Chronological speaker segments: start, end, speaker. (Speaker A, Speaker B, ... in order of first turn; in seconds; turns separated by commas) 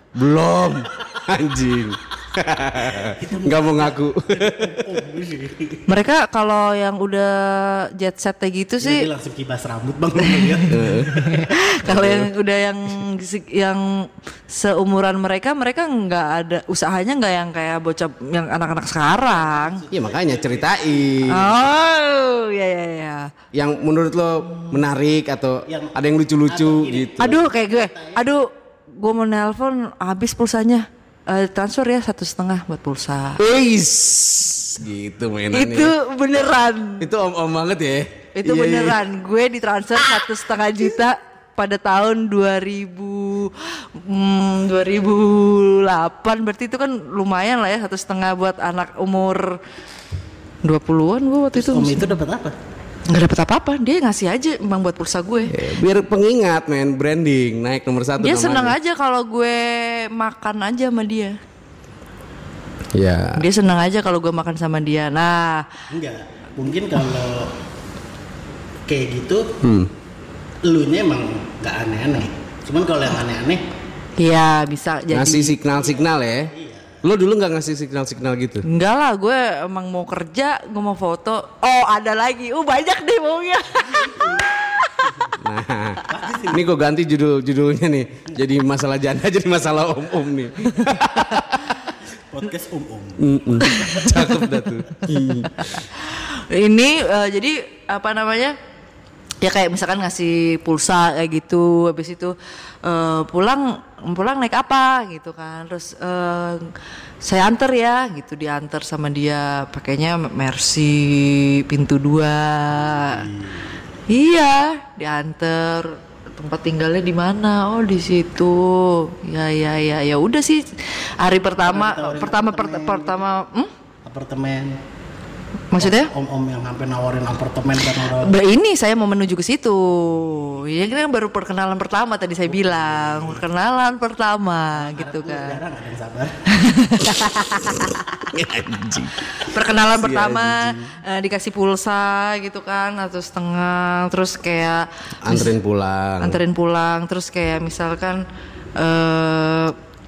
Speaker A: 0.1-5.0, Speaker B: 2.9-5.8, Speaker C: 5.9-9.1, Speaker B: 8.8-11.5, Speaker C: 10.3-19.8, Speaker A: 10.7-11.1, Speaker A: 11.8-12.3, Speaker B: 19.2-21.4, Speaker A: 19.9-21.4, Speaker C: 21.3-23.3, Speaker A: 23.5-27.4, Speaker B: 25.7-28.3, Speaker C: 27.2-33.4, Speaker A: 33.4-35.9, Speaker C: 35.5-37.1, Speaker A: 37.0-39.0, Speaker C: 38.3-49.6, Speaker C: 50.6-52.2, Speaker B: 51.5-52.5, Speaker C: 53.1-55.6, Speaker A: 55.5-58.8, Speaker C: 58.2-61.4, Speaker A: 62.9-63.4, Speaker C: 63.4-65.7, Speaker B: 65.9-67.5, Speaker B: 68.9-69.5, Speaker A: 69.6-69.9, Speaker B: 70.6-73.6, Speaker C: 74.2-75.5, Speaker A: 75.1-76.5, Speaker B: 75.7-77.0, Speaker A: 77.0-78.6, Speaker C: 78.6-85.3, Speaker B: 83.7-84.5, Speaker B: 85.1-85.4, Speaker A: 85.4-91.8, Speaker B: 86.1-86.7, Speaker B: 92.2-94.0, Speaker A: 93.2-95.6, Speaker C: 93.6-94.1, Speaker C: 95.4-98.5, Speaker C: 99.4-113.2, Speaker B: 112.7-113.7, Speaker C: 114.1-123.7, Speaker B: 121.6-123.3, Speaker B: 124.0-124.8, Speaker C: 125.7-126.1, Speaker B: 125.8-128.3, Speaker C: 128.0-135.6, Speaker B: 132.5-133.4, Speaker B: 134.7-136.4, Speaker C: 136.5-137.9, Speaker A: 137.5-139.2, Speaker C: 139.3-145.5, Speaker A: 139.9-140.8, Speaker A: 145.2-146.4, Speaker C: 146.2-148.2, Speaker C: 148.8-149.8